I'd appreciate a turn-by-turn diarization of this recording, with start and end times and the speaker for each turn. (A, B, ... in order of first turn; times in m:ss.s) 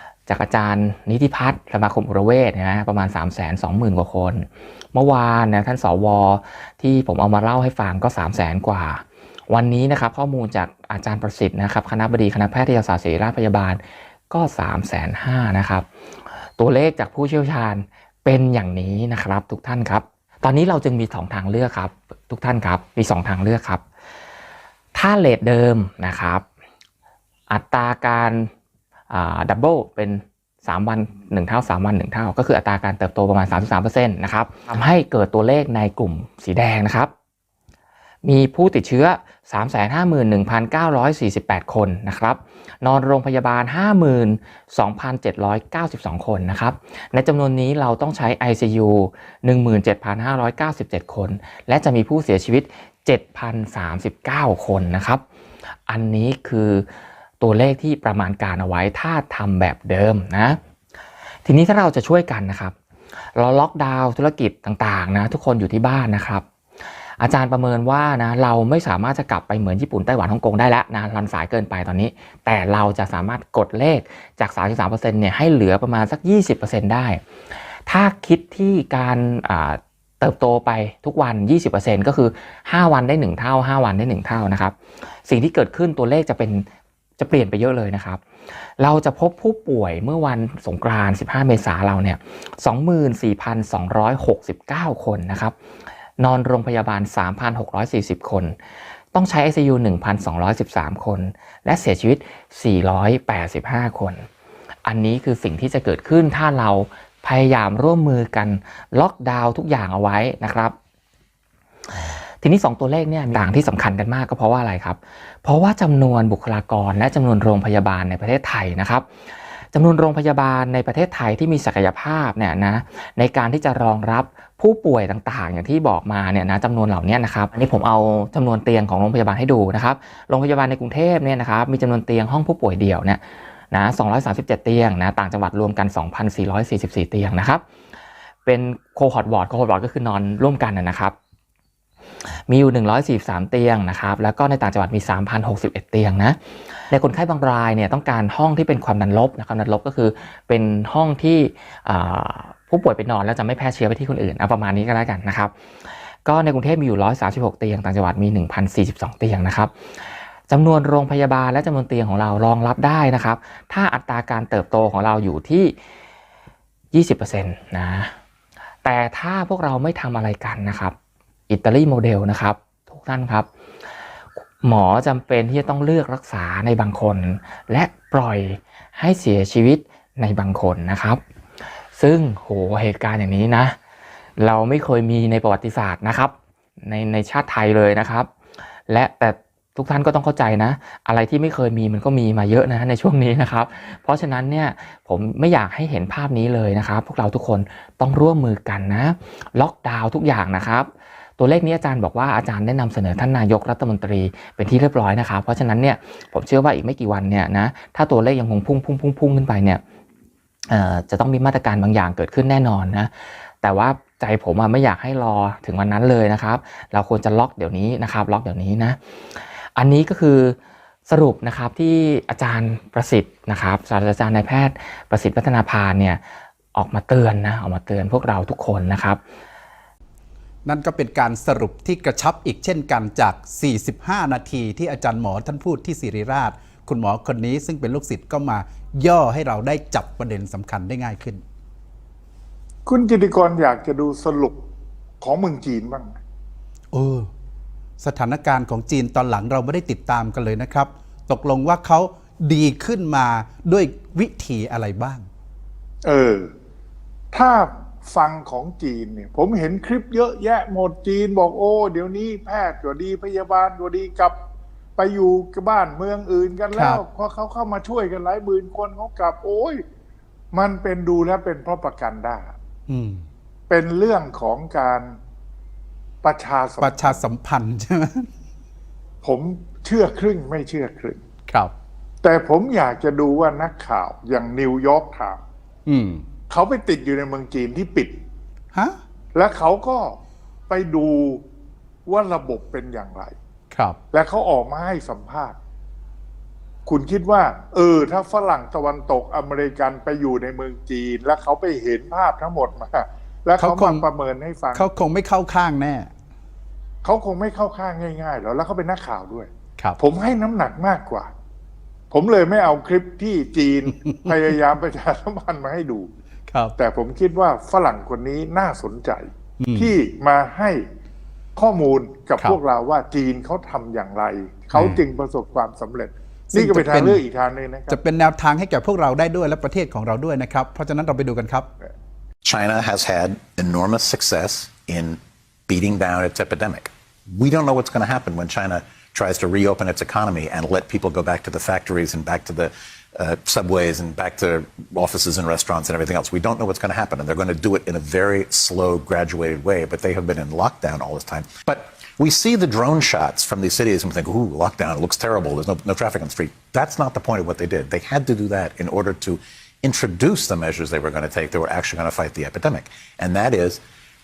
0:00.3-0:15.8 A
0:16.4-0:23.8 A
0:24.9-0:26.4 A
0:27.5-0:28.5 A
0:29.1-0:37.1 A
0:38.2-0:55.2 A
0:55.9-0:56.8 A
0:57.4-1:00.6 A
1:01.4-1:02.7 A
1:03.3-1:06.4 A
1:07.0-1:17.2 A
1:17.9-1:26.6 A
1:27.2-1:35.5 A
1:36.2-1:38.6 A
1:39.1-1:44.2 A
1:44.8-1:50.7 A
1:51.9-2:17.6 A
2:18.4-2:21.1 A
2:22.3-2:35.5 A
2:36.2-2:45.7 A
2:46.9-2:48.1 A
2:48.8-2:50.9 A
2:51.5-2:53.5 A
2:54.6-3:01.2 A
3:02.0-3:03.8 A
3:04.4-3:08.3 A
3:08.9-3:29.8 A
3:30.7-3:40.6 A
3:41.1-3:46.2 A
3:46.7-3:49.2 A
3:50.6-4:01.4 B
4:02.8-4:04.6 C
4:05.2-4:06.2 C
4:06.9-4:07.3 B
4:08.0-4:15.3 B
4:16.0-4:16.5 C
4:17.3-4:24.4 C
4:25.0-4:29.8 C
4:26.7-4:27.0 B
4:30.5-4:32.5 C
4:32.9-4:33.2 B
4:33.7-4:35.1 C
4:36.2-4:37.2 C
4:36.8-4:38.3 B
4:39.2-4:41.2 C
4:42.2-4:45.4 C
4:45.9-4:46.2 B
4:46.5-4:48.1 C
4:48.7-4:49.0 B
4:49.3-4:50.2 C
4:50.7-4:51.4 C
4:52.0-4:53.3 C
4:53.7-4:54.0 B
4:54.1-4:55.6 C
4:56.8-5:04.9 C
5:03.6-5:04.0 B
5:04.7-5:06.1 B
5:07.0-5:11.3 C
5:12.1-5:16.1 C
5:16.5-5:16.7 B
5:16.8-5:20.8 C
5:19.6-5:19.9 B
5:21.6-5:28.0 C
5:24.7-5:25.0 B
5:26.5-5:27.2 B
5:27.9-5:31.7 B
5:32.4-6:03.8 D